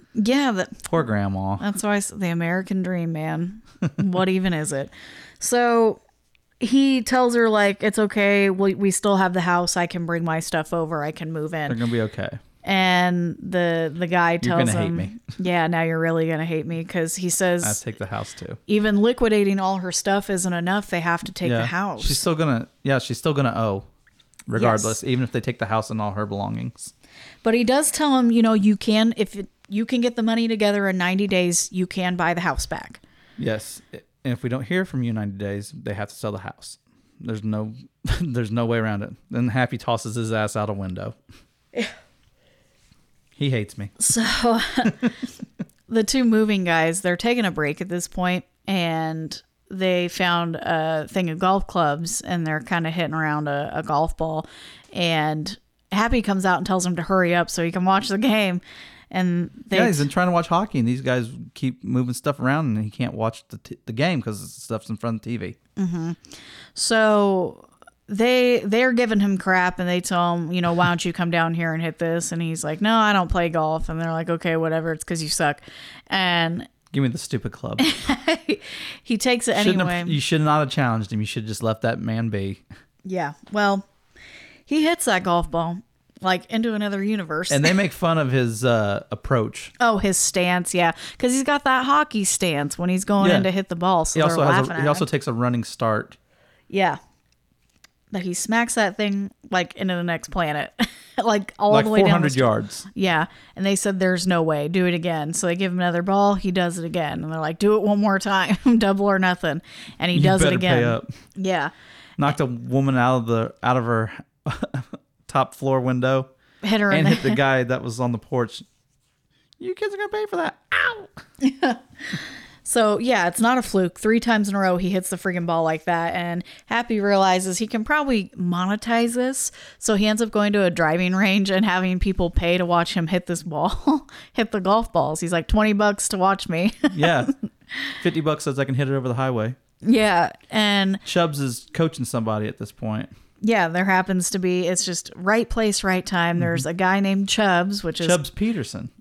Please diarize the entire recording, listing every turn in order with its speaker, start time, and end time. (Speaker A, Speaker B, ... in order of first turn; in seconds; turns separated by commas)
Speaker A: 0.2-0.9, Speaker B: 0.9-1.6, Speaker A: 1.6-6.0, Speaker A: 6.6-11.8, Speaker B: 11.7-12.4, Speaker A: 12.6-17.8, Speaker B: 14.4-15.2, Speaker B: 17.6-18.6, Speaker A: 18.7-22.2, Speaker B: 21.4-23.9, Speaker B: 24.5-26.9, Speaker A: 24.6-25.0, Speaker A: 27.4-33.0, Speaker B: 33.4-41.2, Speaker B: 43.4-43.9, Speaker A: 44.0-45.1, Speaker A: 45.9-60.1, Speaker B: 59.7-65.6, Speaker A: 65.8-66.2, Speaker A: 66.8-76.7, Speaker B: 76.9-77.9, Speaker A: 77.8-80.2, Speaker B: 79.5-82.6, Speaker A: 83.0-83.9, Speaker A: 84.7-87.7, Speaker B: 87.5-89.7, Speaker A: 89.8-95.0, Speaker B: 93.2-93.5, Speaker B: 94.2-96.2, Speaker A: 96.7-97.0, Speaker A: 98.1-111.7, Speaker B: 101.7-102.9, Speaker B: 110.1-111.1, Speaker B: 112.2-116.3, Speaker A: 116.6-117.4, Speaker B: 116.9-118.7, Speaker B: 119.6-121.1, Speaker A: 121.4-137.9, Speaker B: 136.9-137.3, Speaker B: 138.0-139.6, Speaker A: 139.8-141.0, Speaker B: 141.1-143.1, Speaker A: 143.4-148.2, Speaker B: 146.4-146.6, Speaker B: 148.0-148.9